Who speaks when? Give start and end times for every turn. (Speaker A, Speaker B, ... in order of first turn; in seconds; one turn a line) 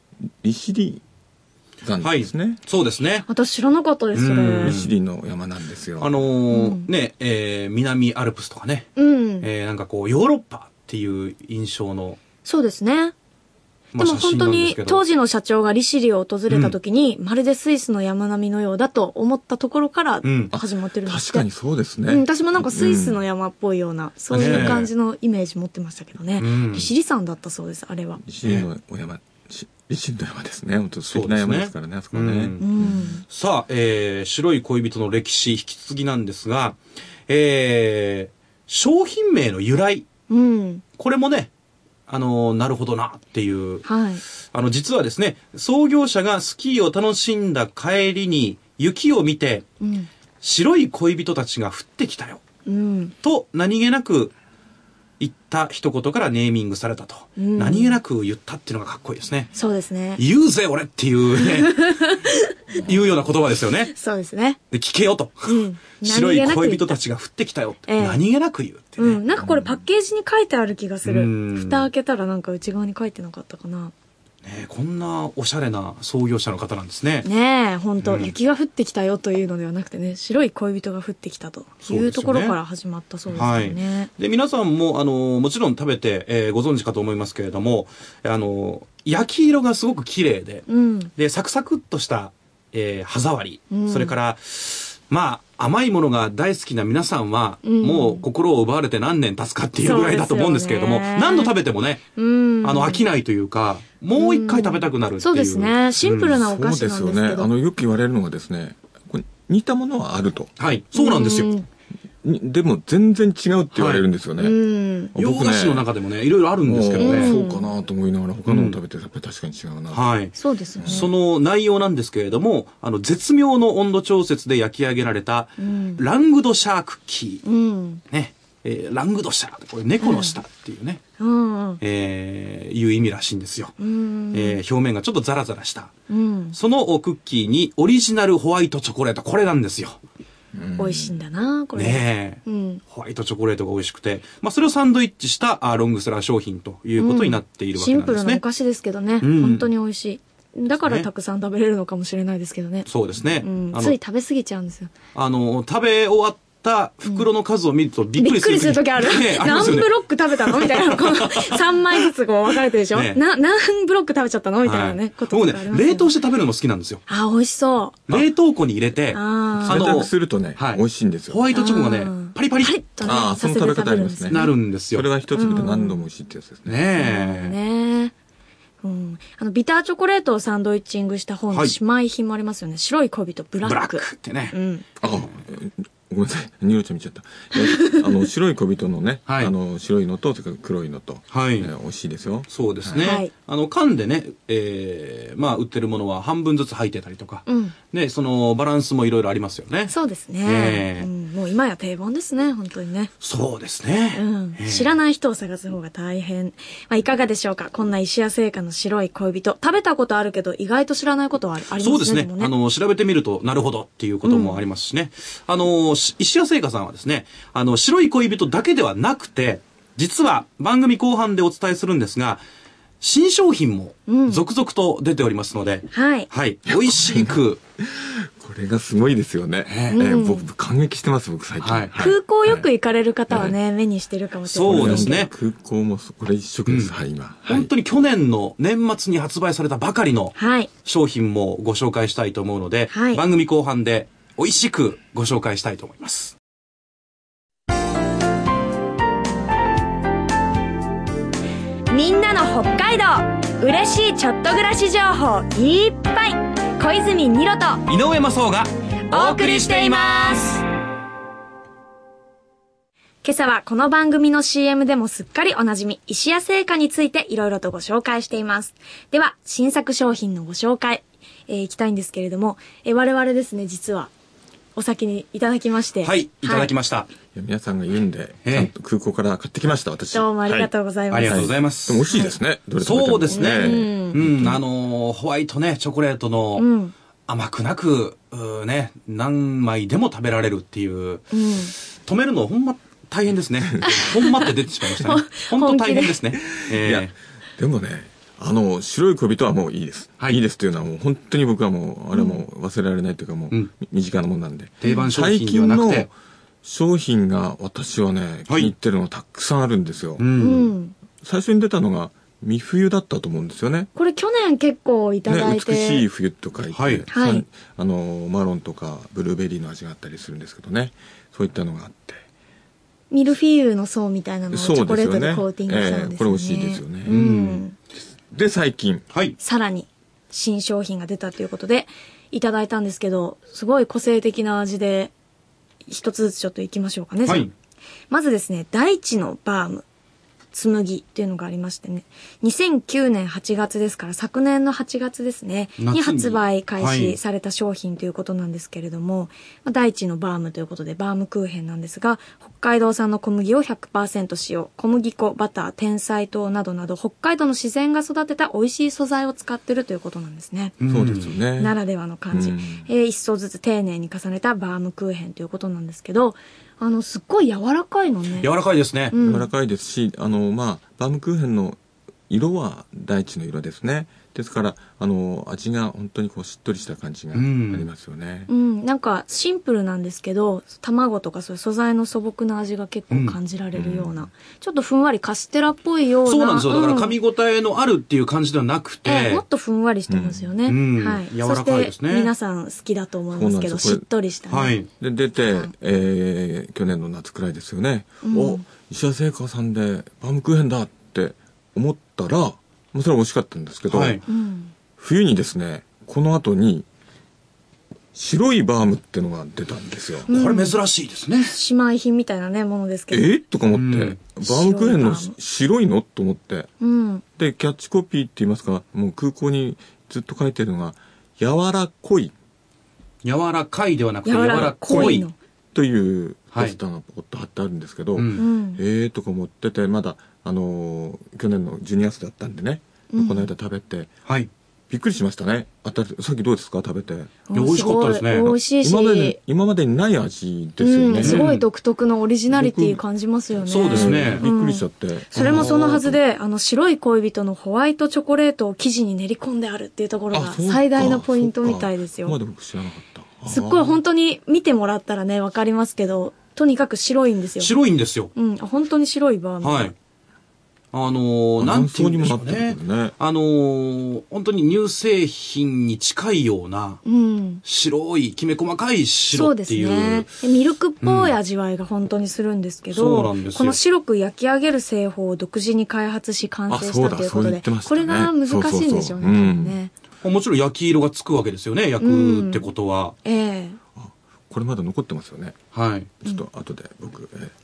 Speaker A: 0.4-1.0
Speaker A: 1.8-2.6
Speaker B: 2.0-3.3
Speaker C: 3.3-4.8
Speaker B: 4.1-4.9
Speaker A: 4.3-6.2
Speaker B: 6.0-12.2
Speaker C: 6.5-6.9
Speaker C: 9.0-9.5
Speaker C: 12.4-13.1
Speaker B: 13.9-15.1
Speaker C: 14.0-21.5
Speaker B: 16.5-16.8
Speaker B: 20.2-20.5
Speaker A: 20.5-23.2
Speaker C: 22.1-28.2
Speaker B: 24.3-24.9
Speaker A: 24.3-24.8
Speaker B: 26.4-26.9
Speaker A: 28.2-33.1
Speaker B: 31.1-32.7
Speaker C: 32.6-33.2
Speaker B: 33.3-40.1
Speaker C: 40.3-40.8
Speaker B: 41.0-41.5
Speaker B: 42.1-43.9
Speaker C: 43.9-44.2
Speaker B: 44.5-49.7
Speaker C: 49.8-50.1
Speaker B: 50.4-52.4
Speaker C: 52.7-53.1
Speaker B: 53.2-54.3
Speaker B: 55.2-59.5
Speaker C: 57.4-58.0
Speaker C: 59.5-60.2
Speaker B: 60.2-61.8
Speaker C: 61.4-62.5
Speaker B: 62.8-63.9
Speaker C: 63.9-64.6
Speaker B: 64.7-69.2
Speaker C: 65.5-67.0
Speaker C: 67.9-68.2
Speaker C: 69.0-73.9
Speaker B: 71.0-71.9
Speaker B: 74.4-77.3
Speaker C: 77.2-84.1
Speaker B: 78.0-78.3
Speaker B: 81.8-82.6
Speaker B: 83.3-106.3
Speaker C: 90.7-91.1
Speaker C: 93.7-94.2
Speaker C: 97.6-98.2
Speaker C: 99.8-101.5
Speaker C: 102.2-103.1
Speaker C: 104.2-107.5
Speaker A: 106.2-110.5
Speaker B: 110.6-111.5
Speaker C: 110.9-111.7
Speaker A: 112.2-114.6
Speaker B: 113.7-114.1
Speaker C: 114.4-115.1
Speaker A: 115.2-115.9
Speaker B: 115.2-117.3
Speaker A: 116.7-120.1
Speaker C: 117.0-117.7
Speaker B: 118.5-118.8
Speaker B: 119.9-127.5
Speaker C: 120.4-121.1
Speaker A: 120.8-121.1
Speaker C: 125.6-126.0
Speaker C: 127.4-128.0
Speaker B: 128.1-131.0
Speaker C: 130.0-130.4
Speaker C: 131.2-131.8
Speaker B: 131.8-133.8
Speaker C: 133.8-134.6
Speaker B: 134.3-135.9
Speaker C: 136.1-136.6
Speaker B: 136.5-140.0
Speaker A: 140.5-141.2
Speaker C: 140.8-142.8
Speaker B: 141.8-148.4
Speaker C: 147.0-152.9
Speaker B: 149.2-149.7
Speaker B: 150.8-151.1
Speaker B: 152.8-154.0
Speaker C: 153.4-154.9
Speaker B: 155.1-162.1
Speaker C: 158.2-166.1
Speaker B: 162.9-163.2
Speaker B: 164.6-167.0
Speaker C: 167.1-168.0
Speaker B: 168.1-172.8
Speaker C: 169.1-169.9
Speaker A: 169.6-171.5
Speaker C: 171.5-174.5
Speaker A: 173.0-176.8
Speaker B: 174.3-175.1
Speaker C: 175.3-176.0
Speaker B: 176.7-177.6
Speaker C: 177.0-178.1
Speaker C: 178.8-184.8
Speaker B: 183.6-185.2
Speaker A: 185.0-193.1
Speaker C: 187.5-188.2
Speaker B: 189.3-189.5
Speaker B: 191.3-191.7
Speaker B: 192.5-199.9
Speaker C: 193.0-193.3
Speaker C: 197.5-197.8
Speaker C: 199.9-203.1
Speaker B: 200.4-201.1
Speaker B: 203.2-205.0
Speaker C: 204.2-212.5
Speaker B: 211.8-222.4
Speaker C: 214.2-214.7
Speaker B: 223.0-227.6
Speaker C: 224.1-224.4
Speaker C: 225.9-226.3
Speaker A: 226.7-232.7
Speaker B: 229.7-230.0
Speaker C: 229.9-230.5
Speaker B: 231.6-232.0
Speaker C: 232.0-235.3
Speaker A: 233.3-233.6
Speaker B: 234.5-235.3
Speaker A: 234.7-237.7
Speaker B: 236.7-246.4
Speaker C: 240.4-240.7
Speaker C: 242.9-243.2
Speaker C: 251.9-257.9
Speaker B: 257.9-260.6
Speaker C: 259.1-260.5
Speaker C: 263.2-274.1
Speaker C: 274.8-276.7
Speaker B: 276.0-277.1
Speaker A: 277.3-284.6
Speaker B: 278.4-278.7
Speaker C: 280.1-281.5
Speaker B: 281.1-282.1
Speaker B: 282.8-286.6
Speaker C: 283.3-284.2
Speaker C: 286.6-286.9
Speaker B: 287.3-291.4
Speaker C: 291.3-291.7
Speaker B: 292.0-297.1
Speaker C: 293.8-294.3
Speaker C: 294.9-296.2
Speaker A: 296.4-306.1
Speaker C: 302.1-302.4
Speaker B: 304.8-306.1
Speaker A: 306.6-310.3
Speaker B: 308.5-308.7
Speaker B: 310.2-310.7
Speaker C: 310.4-310.9
Speaker A: 311.2-313.9
Speaker C: 313.9-316.1
Speaker A: 315.3-322.2
Speaker B: 316.7-317.1
Speaker C: 317.1-317.4
Speaker C: 323.1-327.8
Speaker A: 324.5-327.1
Speaker B: 327.1-327.6
Speaker A: 328.3-329.1
Speaker B: 329.1-329.4
Speaker C: 329.4-335.1
Speaker C: 335.9-337.5
Speaker B: 337.2-337.5
Speaker C: 338.1-339.9
Speaker C: 340.5-360.8
Speaker B: 345.8-347.2
Speaker B: 360.8-361.3
Speaker A: 360.9-361.8
Speaker C: 361.6-368.5
Speaker A: 362.3-362.9
Speaker B: 368.4-369.1
Speaker C: 369.1-369.5
Speaker A: 369.2-378.5
Speaker B: 377.3-377.9
Speaker C: 378.5-387.2
Speaker B: 383.1-383.4
Speaker A: 383.7-384.3
Speaker B: 386.2-389.4
Speaker C: 389.1-394.8
Speaker A: 390.1-390.5
Speaker B: 390.7-392.3
Speaker A: 393.3-394.1
Speaker B: 394.5-394.9
Speaker A: 395.0-404.2
Speaker C: 398.2-398.6
Speaker B: 403.9-404.2
Speaker C: 404.3-404.7
Speaker A: 405.0-406.9
Speaker A: 408.1-410.3
Speaker C: 410.3-410.8
Speaker B: 410.3-411.6
Speaker C: 411.5-413.4
Speaker A: 413.1-416.7
Speaker B: 413.7-414.2
Speaker C: 414.4-415.4
Speaker C: 416.8-417.2
Speaker A: 417.4-422.3
Speaker B: 423.2-425.3
Speaker C: 424.2-425.4
Speaker A: 424.6-434.1
Speaker B: 428.2-428.4
Speaker C: 428.4-428.8
Speaker C: 433.1-433.5
Speaker A: 434.9-437.4
Speaker C: 437.5-439.4
Speaker B: 437.5-438.5
Speaker A: 438.4-441.5
Speaker C: 440.8-452.4
Speaker B: 441.2-441.6
Speaker A: 442.5-443.0
Speaker B: 443.7-444.4
Speaker A: 443.9-446.2
Speaker A: 450.3-454.0
Speaker C: 453.5-457.7
Speaker B: 457.6-458.3
Speaker C: 458.4-459.9
Speaker B: 459.6-459.9
Speaker B: 460.9-467.0
Speaker A: 461.6-463.1
Speaker C: 467.1-467.6
Speaker B: 467.6-470.3
Speaker C: 469.3-479.9
Speaker B: 471.0-471.4
Speaker B: 472.9-473.8
Speaker A: 476.7-479.8
Speaker B: 480.2-483.1
Speaker C: 482.0-482.7
Speaker C: 483.2-483.8
Speaker A: 484.0-485.6
Speaker B: 485.7-486.1
Speaker A: 486.2-487.5